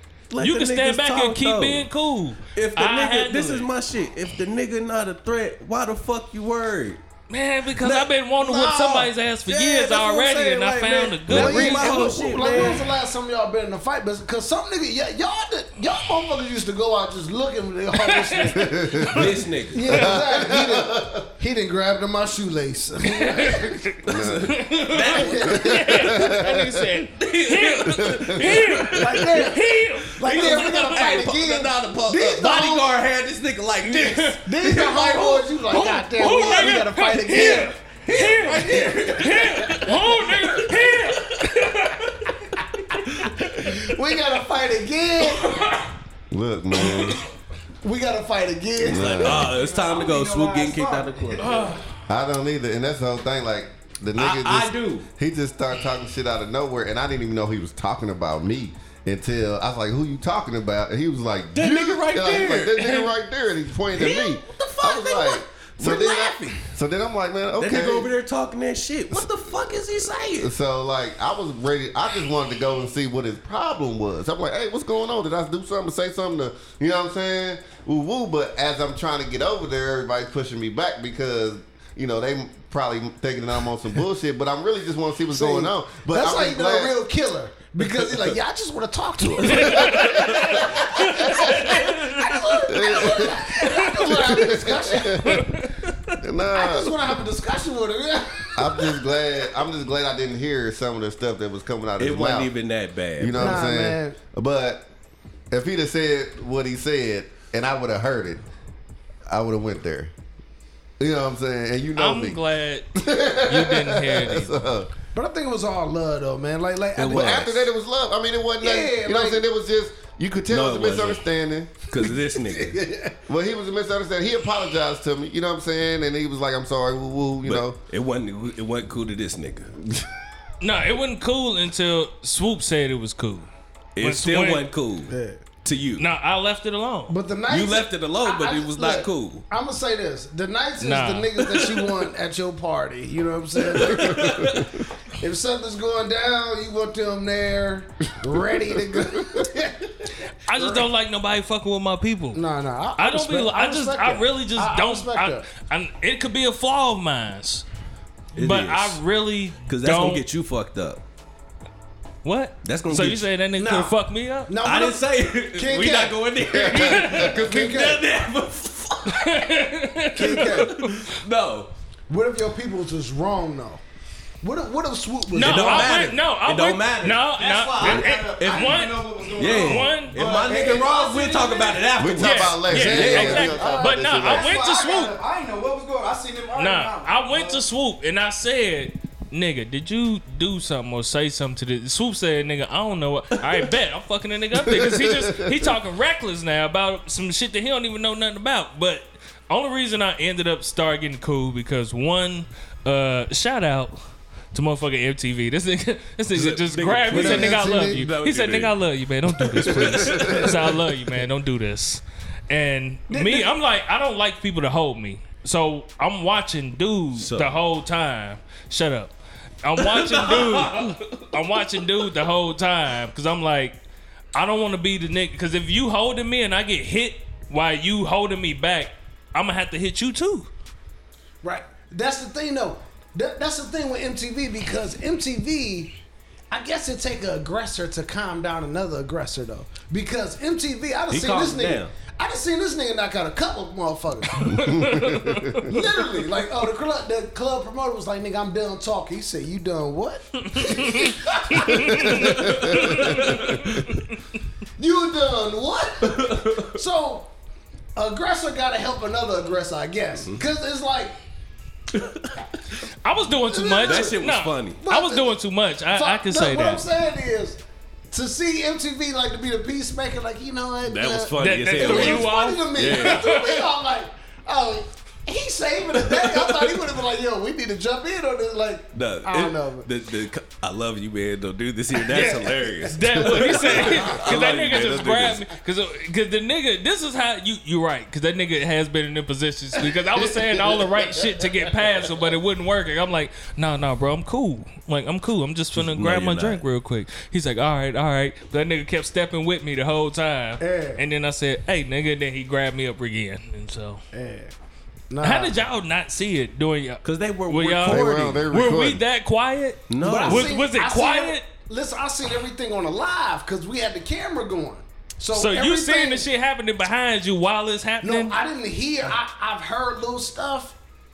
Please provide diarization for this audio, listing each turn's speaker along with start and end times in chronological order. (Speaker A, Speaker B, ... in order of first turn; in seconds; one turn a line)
Speaker A: 0.3-1.9
Speaker B: 0.4-3.7
Speaker A: 2.5-7.0
Speaker B: 7.3-12.7
Speaker A: 7.8-12.9
Speaker C: 11.3-11.6
Speaker D: 11.3-19.1
Speaker B: 18.0-19.3
Speaker C: 18.5-19.2
Speaker A: 19.1-20.1
Speaker D: 19.7-23.9
Speaker C: 19.9-21.2
Speaker B: 23.1-31.1
Speaker A: 24.0-26.5
Speaker C: 24.1-24.7
Speaker D: 25.1-25.8
Speaker C: 25.5-26.8
Speaker A: 27.1-29.5
Speaker C: 27.9-28.8
Speaker D: 28.9-32.9
Speaker A: 30.2-41.5
Speaker B: 33.9-34.4
Speaker D: 34.5-37.8
Speaker B: 35.8-42.0
Speaker D: 38.5-39.9
Speaker D: 43.4-45.6
Speaker B: 45.4-45.9
Speaker C: 46.3-47.2
Speaker D: 47.8-49.5
Speaker C: 48.8-49.6
Speaker A: 48.9-51.7
Speaker E: 49.4-51.8
Speaker B: 51.4-52.0
Speaker C: 52.1-68.1
Speaker A: 54.1-55.1
Speaker A: 61.5-63.1
Speaker A: 64.0-66.7
Speaker A: 67.6-70.5
Speaker C: 70.4-87.0
Speaker D: 85.3-95.5
Speaker C: 87.8-88.4
Speaker C: 89.4-91.7
Speaker B: 89.5-92.4
Speaker C: 92.7-95.5
Speaker B: 95.2-96.2
Speaker C: 96.1-97.2
Speaker D: 96.5-99.0
Speaker C: 98.5-102.5
Speaker A: 102.0-103.7
Speaker C: 103.2-104.9
Speaker D: 103.4-104.2
Speaker C: 105.5-108.4
Speaker C: 109.3-110.1
Speaker C: 111.0-112.4
Speaker B: 112.0-114.6
Speaker C: 112.9-114.9
Speaker D: 115.1-117.7
Speaker A: 117.0-117.6
Speaker C: 117.0-122.0
Speaker D: 118.6-119.4
Speaker A: 120.5-121.2
Speaker A: 121.9-122.8
Speaker D: 122.5-123.2
Speaker C: 123.3-127.8
Speaker A: 127.4-129.7
Speaker B: 130.6-133.5
Speaker A: 134.0-136.1
Speaker B: 134.0-134.7
Speaker D: 135.1-135.4
Speaker B: 136.0-137.2
Speaker D: 137.1-150.9
Speaker A: 137.5-139.5
Speaker B: 140.8-141.5
Speaker C: 143.8-144.8
Speaker A: 143.9-144.6
Speaker C: 148.9-149.2
Speaker B: 150.5-152.4
Speaker D: 152.3-155.5
Speaker B: 153.0-157.7
Speaker A: 158.3-159.0
Speaker B: 158.3-160.2
Speaker A: 159.7-161.0
Speaker B: 162.2-164.6
Speaker A: 162.6-163.3
Speaker D: 163.6-164.0
Speaker D: 164.5-168.0
Speaker A: 164.6-169.4
Speaker C: 166.5-167.2
Speaker B: 166.8-167.3
Speaker B: 169.1-171.2
Speaker D: 170.2-170.8
Speaker A: 170.3-171.7
Speaker D: 172.1-173.8
Speaker D: 174.4-176.0
Speaker B: 175.3-180.2
Speaker A: 175.4-177.2
Speaker E: 177.2-182.0
Speaker A: 177.8-183.6
Speaker C: 182.0-184.5
Speaker B: 182.2-185.2
Speaker D: 183.0-184.1
Speaker E: 183.6-187.7
Speaker B: 186.5-204.0
Speaker C: 194.7-195.7
Speaker B: 204.5-223.8
Speaker A: 206.3-210.8
Speaker D: 207.1-208.0
Speaker C: 210.1-210.5
Speaker D: 213.1-213.5
Speaker A: 217.2-217.6
Speaker A: 219.8-221.3
Speaker B: 224.3-230.5
Speaker D: 231.4-235.9
Speaker D: 236.5-244.7
Speaker A: 241.1-241.9
Speaker B: 244.4-245.8
Speaker C: 244.4-245.8
Speaker D: 245.6-253.3
Speaker B: 250.5-254.4
Speaker C: 251.7-253.0
Speaker A: 252.4-253.6
Speaker D: 254.8-257.3
Speaker A: 256.0-256.8
Speaker D: 258.0-261.1
Speaker A: 261.9-262.4
Speaker B: 263.0-266.9
Speaker D: 263.5-264.2
Speaker A: 263.8-264.8
Speaker D: 264.8-265.4
Speaker D: 265.9-267.6
Speaker D: 268.1-279.9
Speaker A: 270.9-273.3
Speaker B: 271.4-273.6
Speaker A: 276.0-276.8
Speaker A: 278.9-285.5
Speaker B: 282.1-304.0
Speaker D: 282.1-282.8
Speaker C: 290.4-290.9
Speaker A: 295.8-296.6
Speaker D: 300.6-301.0
Speaker D: 304.1-304.5
Speaker D: 305.1-305.6
Speaker B: 305.2-311.4
Speaker A: 307.0-308.5
Speaker C: 307.9-309.0
Speaker A: 309.9-310.6
Speaker D: 310.0-316.3
Speaker B: 315.3-318.4
Speaker D: 318.0-320.8